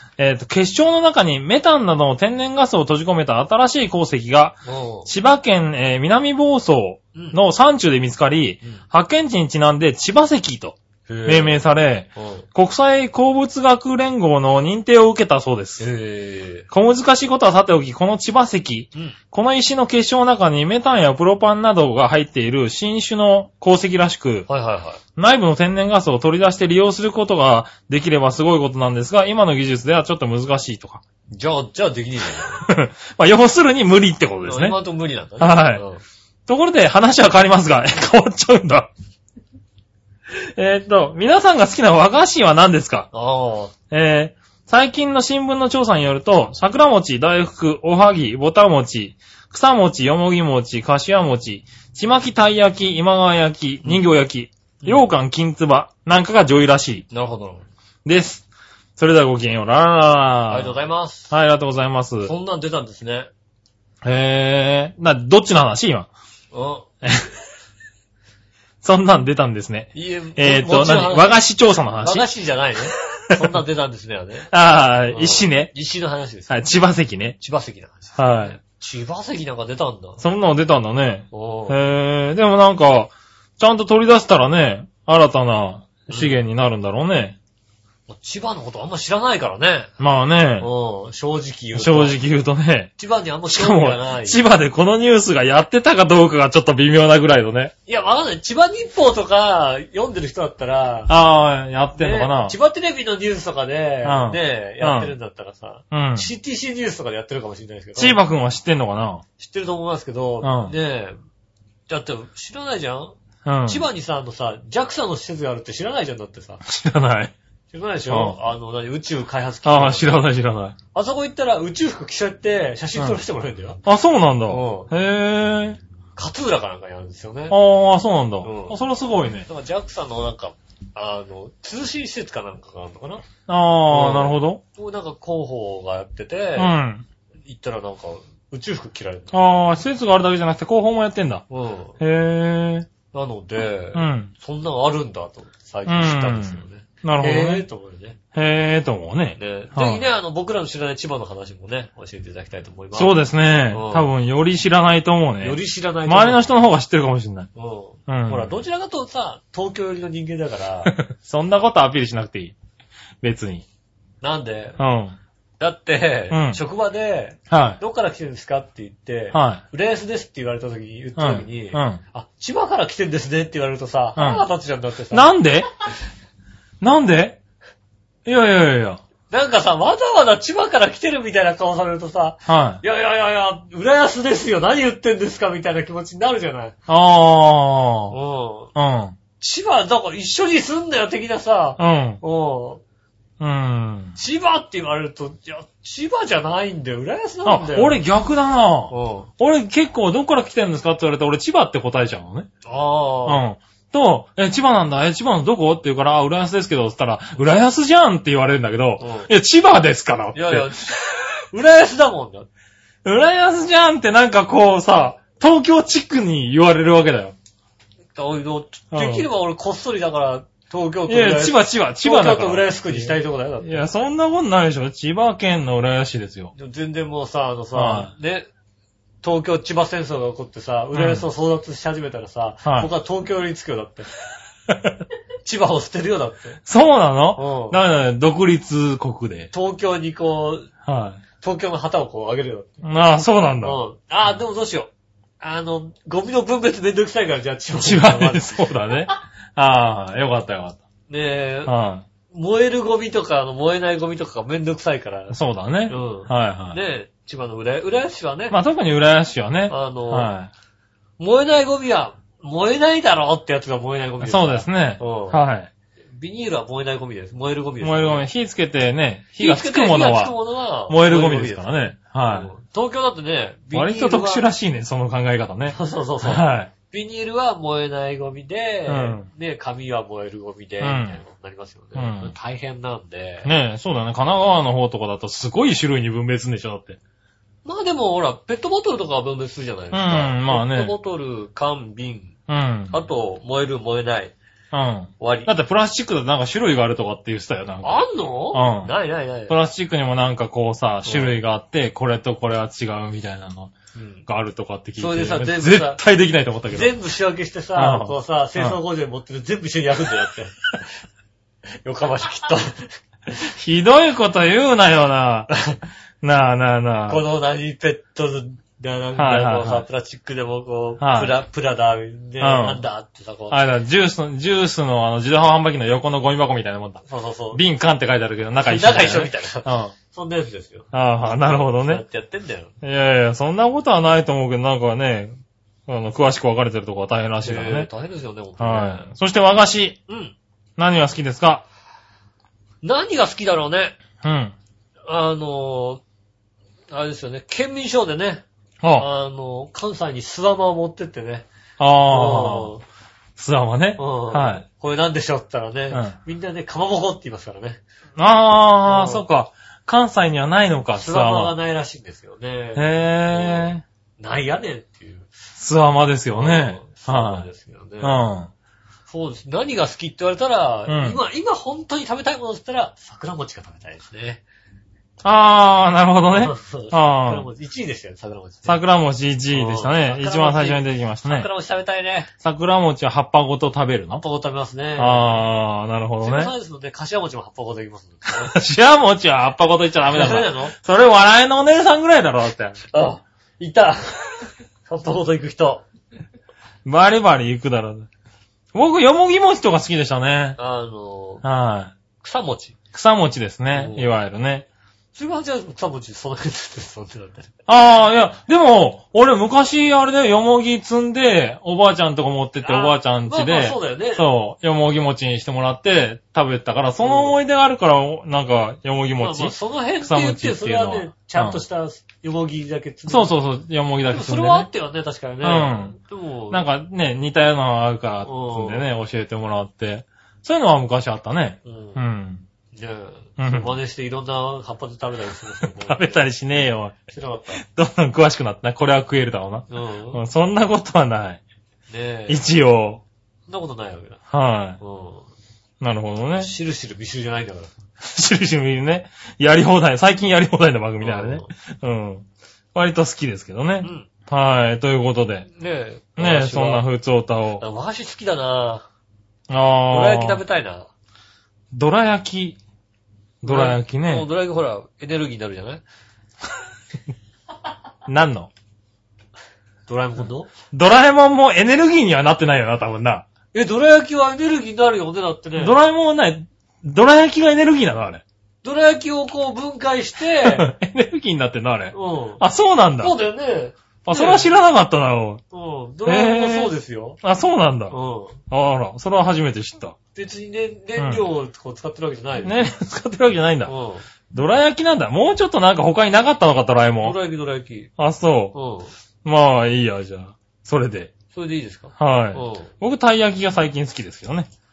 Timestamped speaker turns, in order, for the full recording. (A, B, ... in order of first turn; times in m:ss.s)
0:00.2-0:15.8 A
0:04.6-0:05.1 B
0:11.1-0:11.6 B
0:12.2-0:12.4 B
0:15.8-0:16.7 B
0:16.7-0:24.5 A
0:24.5-0:25.0 B
0:25.2-0:31.0 A
0:31.3-0:32.7 B
0:32.6-0:34.8 A
0:34.4-0:36.0 B
0:35.4-0:35.8 A
0:36.5-0:38.9 A
0:40.3-0:43.1 A
0:43.1-0:43.7 B
0:43.9-0:57.0 A
0:54.8-0:55.1 B
0:57.1-0:57.6 B
0:58.0-0:58.4 A
0:59.0-1:00.8 A
1:00.5-1:01.3 B
1:01.3-1:02.3 A
1:02.2-1:03.3 B
1:04.0-1:06.1 A
1:06.5-1:06.9 B
1:07.0-1:07.3 A
1:08.8-1:12.3 A
1:09.9-1:11.4 B
1:12.0-1:14.5 B
1:13.3-1:13.6 A
1:14.5-1:15.7 A
1:15.1-1:16.6 B
1:16.5-1:17.4 A
1:17.4-1:20.2 B
1:18.2-1:18.6 A
1:20.2-1:27.4 A
1:21.3-1:21.8 B
1:26.1-1:26.4 B
1:28.1-1:29.9 B
1:30.0-1:30.7 A
1:30.6-1:32.2 B
1:31.7-1:32.9 A
1:33.0-1:34.4 B
1:33.5-1:37.7 A
1:37.9-1:41.1 B
1:41.1-1:42.6 A
1:42.0-1:48.2 B
1:44.0-1:45.1 A
1:45.9-1:46.3 A
1:48.0-1:49.2 A
1:49.4-1:51.2 B
1:50.4-1:50.7 A
1:51.9-1:53.1 B
1:53.4-1:53.8 A
1:53.6-1:56.6 B
1:56.6-1:57.3 A
1:57.7-2:00.2 B
1:58.1-1:58.4 A
1:59.6-2:00.8 A
2:00.9-2:03.8 B
2:03.8-2:05.8 A
2:04.5-2:04.9 B
2:06.2-2:07.6 B
2:07.5-2:09.5 A
2:08.4-2:08.8 B
2:09.5-2:13.2 B
2:13.5-2:14.6 A
2:13.9-2:16.7 B
2:16.6-2:17.0 A
2:17.5-2:19.3 B
2:19.3-2:21.4 A
2:21.5-2:22.0 B
2:22.0-2:22.9 A
2:23.1-2:28.2 B
2:23.9-2:24.3 A
2:25.9-2:27.6 A
2:28.3-2:30.0 A
2:29.4-2:33.2 B
2:32.9-2:37.5 A
2:33.7-2:34.1 B
2:35.4-2:36.5 B
2:37.5-2:40.9 B
2:38.1-2:38.5 A
2:40.9-2:42.5 A
2:43.2-2:43.6 A
2:44.2-2:44.8 B
2:44.8-2:45.2 A
2:45.6-2:55.3 B
2:46.3-2:46.6 A
2:47.5-2:47.8 A
2:49.3-2:49.6 A
2:51.2-2:52.0 A
2:54.2-2:54.4 A
2:55.1-2:55.7 A
2:56.8-2:57.4 A
2:58.2-2:59.0 A
2:59.3-3:06.7 B
3:02.5-3:02.8 A
3:06.9-3:08.1 A
3:08.1-3:08.7 B
3:08.7-3:09.2 A
3:09.4-3:12.8 B
3:11.8-3:12.2 A
3:13.4-3:14.2 A
3:14.2-3:18.0 B
3:17.4-3:22.5 A
3:18.9-3:19.3 B
3:22.6-3:23.4 B
3:23.2-3:31.0 A
3:29.0-3:29.3 B
3:30.3-3:31.0 B
3:31.5-3:32.5 B
3:33.0-3:37.3 A
3:38.1-3:43.9 B
3:38.9-3:39.3 A
3:41.1-3:46.5 A
3:46.5-3:48.5 B
3:47.7-3:48.1 A
3:49.2-3:54.1 B
3:50.9-3:51.2 A
3:52.6-3:52.9 A
3:54.7-3:55.0 A
3:55.4-3:56.6 B
3:56.6-3:59.5 A
3:57.4-3:57.8 B
3:59.5-4:00.7 B
4:00.8-4:01.2 A
4:01.4-4:02.8 B
4:02.8-4:03.8 A
4:03.6-4:08.7 B
4:07.8-4:10.8 A
4:11.1-4:11.7 B
4:11.6-4:12.0 A
4:12.3-4:15.3 B
4:15.3-4:16.8 A
4:15.9-4:18.6 B
4:18.5-4:20.5 A
4:19.7-4:20.3 B
4:21.2-4:25.4 B
4:24.2-4:25.7 A
4:26.2-4:28.2 B
4:27.8-4:30.3 A
4:29.3-4:34.4 B
4:30.9-4:32.5 A
4:33.7-4:36.7 A
4:35.7-4:43.5 B
4:38.9-4:39.3 A
4:40.8-4:41.2 A
4:42.0-4:42.3 A
4:43.4-4:47.0 A
4:47.6-4:52.3 B
4:49.9-4:50.9 A
4:52.5-4:53.0 A
4:52.9-4:54.3 B
4:54.7-4:58.9 A
4:55.2-4:55.5 B
4:57.8-4:59.5 B
4:59.5-5:03.7 A
5:01.0-5:01.4 B
5:03.9-5:04.2 B
5:04.3-5:07.0 A
5:05.0-5:06.0 B
5:06.7-5:10.8 B
5:07.7-5:08.8 A
5:11.8-5:12.9 B
5:13.4-5:15.5 A
5:15.5-5:15.8 B
5:16.2-5:17.2 A
5:17.1-5:23.6 B
5:19.2-5:19.8 A
5:21.0-5:21.3 A
5:22.4-5:22.8 A
5:23.5-5:29.9 A
5:27.0-5:27.6 B
5:28.6-5:32.7 B
5:30.9-5:32.0 A
5:32.8-5:35.4 A
5:35.9-5:37.9 A
5:37.4-5:39.1 B
5:38.6-5:40.0 A
5:40.1-5:40.3 B
5:40.8-5:41.6 A
5:42.8-5:44.0 B
5:44.2-5:44.5 A
5:45.1-5:46.0 B
5:46.9-5:48.4 B
5:48.8-5:49.1 A
5:49.0-5:51.5 B
5:51.8-5:52.7 A
5:52.1-5:52.8 B
5:53.4-5:54.6 A
5:54.0-5:57.8 B
5:58.2-6:01.5 A
5:58.8-5:59.2 B
6:01.0-6:05.3 B
6:02.8-6:03.8 A
6:05.6-6:07.5 A
6:06.3-6:08.2 B
6:08.0-6:08.5 A
6:09.1-6:14.4 B
6:10.9-6:11.2 A
6:15.2-6:17.5 A
6:16.3-6:18.8 B
6:18.6-6:21.5 A
6:19.5-6:22.3 B
6:22.4-6:24.2 A
6:24.1-6:25.4 B
6:25.0-6:26.5 A
6:26.2-6:28.5 B
6:28.4-6:32.8 A
6:30.1-6:30.7 B
6:32.9-6:35.8 B
6:36.8-6:38.1 A
6:38.7-6:40.6 A
6:40.6-6:41.4 B
6:41.4-6:41.9 A
6:42.2-6:42.8 B
6:42.9-6:44.6 A
6:43.7-6:44.1 B
6:45.1-6:47.5 B
6:47.7-7:01.6 A
6:52.6-6:54.2 B
6:57.0-6:57.4 B
6:59.2-7:03.4 B
7:03.1-7:04.7 A
7:04.1-7:06.7 B
7:05.4-7:06.0 A
7:06.5-7:12.4 A
7:08.2-7:08.8 B
7:11.6-7:12.0 B
7:12.7-7:16.2 B
7:13.4-7:13.8 A
7:15.6-7:17.0 A
7:17.1-7:17.6 B
7:17.6-7:21.4 A
7:19.7-7:20.2 B
7:21.9-7:22.4 B
7:22.3-7:23.0 A
7:23.5-7:24.2 B
7:24.3-7:24.8 A
7:24.8-7:25.3 B
7:25.8-7:26.5 A
7:26.4-7:27.7 B
7:28.0-7:35.5 A
7:31.0-7:31.5 B
7:33.8-7:34.1 B
7:35.5-7:36.8 B
7:36.2-7:37.6 A
7:37.6-7:38.8 B
7:39.5-7:40.4 A
7:39.9-7:40.9 B
7:41.7-7:42.6 A
7:43.4-7:44.3 A
7:43.4-7:45.8 B
7:48.0-7:48.5 A
7:49.9-7:50.5 B
7:50.7-7:53.2 A
7:53.5-7:55.8 B
7:55.6-7:58.2 A
7:58.6-8:00.7 B
8:00.4-8:03.1 A
8:01.9-8:02.4 B
8:03.0-8:04.5 B
8:04.0-8:05.4 A
8:05.5-8:07.2 B
8:06.0-8:07.9 A
8:07.9-8:08.4 B
8:08.5-8:10.0 A
8:10.1-8:12.7 B
8:11.0-8:11.2 A
8:12.4-8:13.7 A
8:13.6-8:14.0 B
8:14.3-8:17.2 A
8:17.0-8:17.9 B
8:18.0-8:18.5 A
8:18.5-8:18.9 B
8:19.2-8:21.1 A
8:21.3-8:22.7 B
8:22.0-8:24.5 A